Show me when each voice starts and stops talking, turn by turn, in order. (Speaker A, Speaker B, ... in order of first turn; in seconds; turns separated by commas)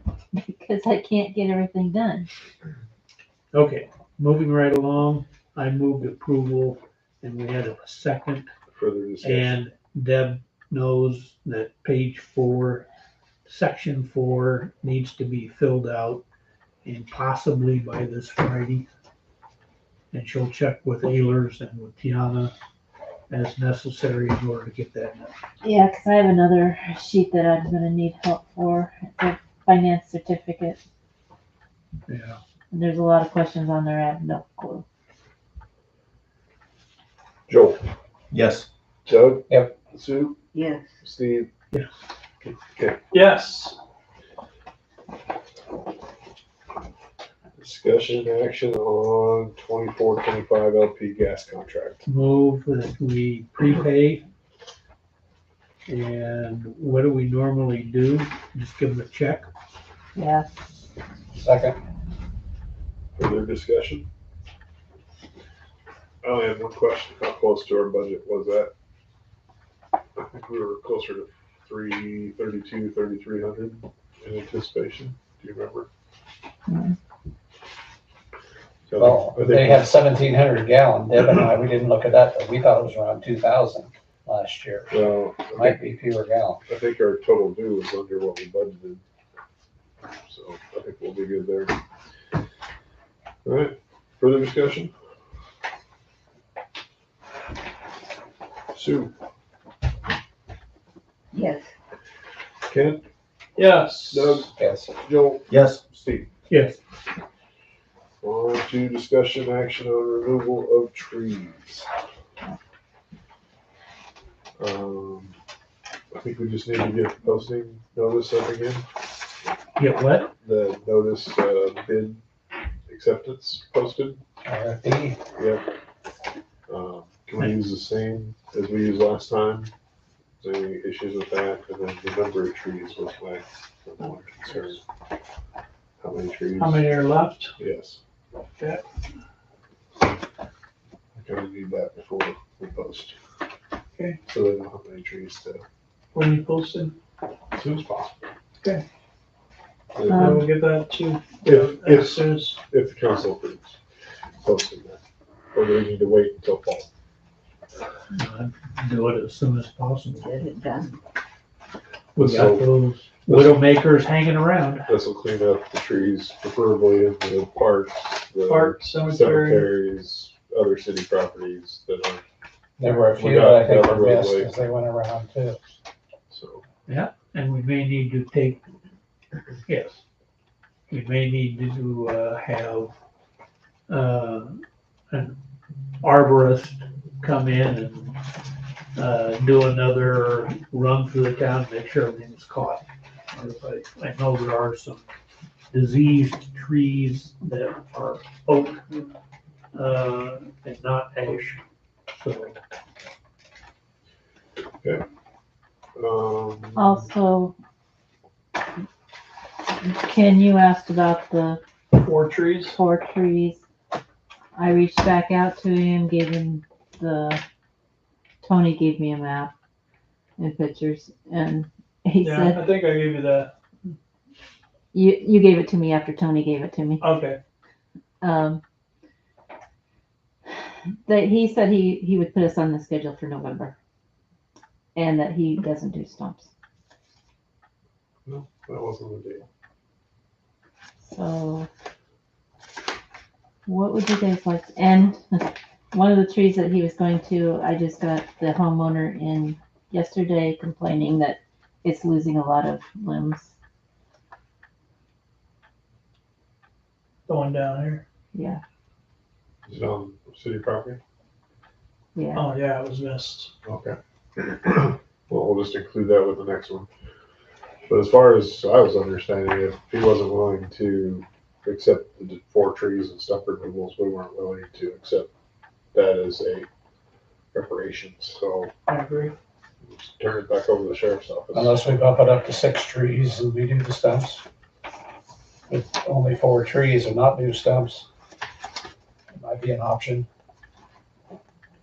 Speaker A: 0.3-2.3, Speaker B: 3.5-8.5, Speaker C: 8.7-9.6, Speaker B: 9.2-12.9, Speaker B: 13.4-16.2, Speaker B: 16.8-18.9, Speaker B: 20.1-22.5, Speaker B: 23.3-25.3, Speaker A: 25.6-30.8, Speaker B: 32.1-32.4, Speaker A: 32.7-34.8, Speaker C: 37.5-37.8, Speaker D: 38.3-38.7, Speaker C: 39.1-40.4, Speaker D: 40.5-40.9, Speaker C: 41.0-41.5, Speaker C: 42.4-43.0, Speaker E: 43.1-43.8, Speaker C: 47.6-52.0, Speaker B: 52.0-54.2, Speaker B: 55.9-59.5, Speaker A: 60.1-60.5, Speaker F: 61.4-61.8, Speaker C: 63.1-64.1, Speaker C: 66.2-68.7, Speaker C: 70.2-75.9, Speaker A: 76.7-76.9, Speaker C: 78.9-79.8, Speaker F: 79.0-85.0, Speaker C: 84.9-85.8, Speaker F: 85.5-86.6, Speaker C: 86.7-89.0, Speaker C: 90.3-91.7, Speaker C: 93.4-94.9, Speaker C: 98.7-99.1, Speaker D: 101.3-101.7, Speaker C: 102.7-103.0, Speaker E: 103.6-104.5, Speaker C: 104.1-106.3, Speaker F: 104.6-104.9, Speaker D: 105.5-105.8, Speaker B: 106.5-106.8, Speaker C: 108.2-111.9, Speaker C: 114.6-115.3, Speaker C: 116.1-118.8, Speaker B: 119.8-120.3, Speaker C: 120.4-122.2, Speaker C: 122.9-124.2, Speaker F: 124.4-125.2, Speaker C: 125.4-125.6, Speaker C: 126.7-129.7, Speaker C: 130.4-134.8, Speaker C: 136.0-136.9, Speaker E: 136.6-137.5, Speaker C: 137.6-138.0, Speaker C: 141.1-143.2, Speaker C: 144.3-145.6, Speaker E: 146.1-146.9, Speaker C: 147.5-148.2, Speaker C: 149.9-150.5, Speaker A: 150.1-150.4, Speaker E: 150.1-152.6, Speaker C: 151.4-153.8, Speaker C: 154.4-155.0, Speaker C: 155.5-156.9, Speaker B: 158.1-160.2, Speaker D: 160.2-161.0, Speaker B: 162.2-164.9, Speaker C: 162.2-162.7, Speaker C: 163.2-163.6, Speaker C: 164.9-172.2, Speaker E: 168.4-169.7, Speaker F: 172.8-175.6, Speaker C: 172.8-174.5, Speaker C: 176.3-176.6, Speaker B: 176.9-178.6, Speaker B: 179.7-180.0, Speaker B: 180.9-182.9, Speaker B: 183.9-185.3, Speaker B: 186.0-188.2, Speaker B: 188.9-195.1, Speaker B: 195.7-198.8, Speaker B: 199.7-202.6, Speaker C: 205.9-207.0, Speaker A: 206.8-207.6, Speaker A: 209.8-211.6, Speaker E: 212.0-212.8, Speaker A: 212.7-213.6, Speaker A: 214.5-217.4, Speaker A: 218.4-219.5, Speaker A: 220.4-222.6, Speaker E: 222.2-223.5, Speaker A: 224.9-227.1, Speaker E: 227.0-227.4, Speaker A: 228.2-228.6, Speaker A: 231.1-233.7, Speaker A: 234.9-236.5, Speaker C: 238.2-239.5, Speaker A: 241.1-241.7, Speaker A: 243.7-253.5, Speaker E: 257.3-258.0, Speaker A: 258.3-258.6, Speaker C: 259.6-261.0, Speaker A: 262.1-262.5, Speaker E: 262.3-263.5, Speaker C: 263.6-266.9, Speaker C: 267.9-275.3, Speaker C: 275.9-276.7, Speaker C: 277.5-278.7, Speaker E: 278.9-279.3, Speaker C: 279.8-281.8, Speaker F: 281.5-284.4, Speaker F: 285.7-288.1, Speaker F: 289.3-290.3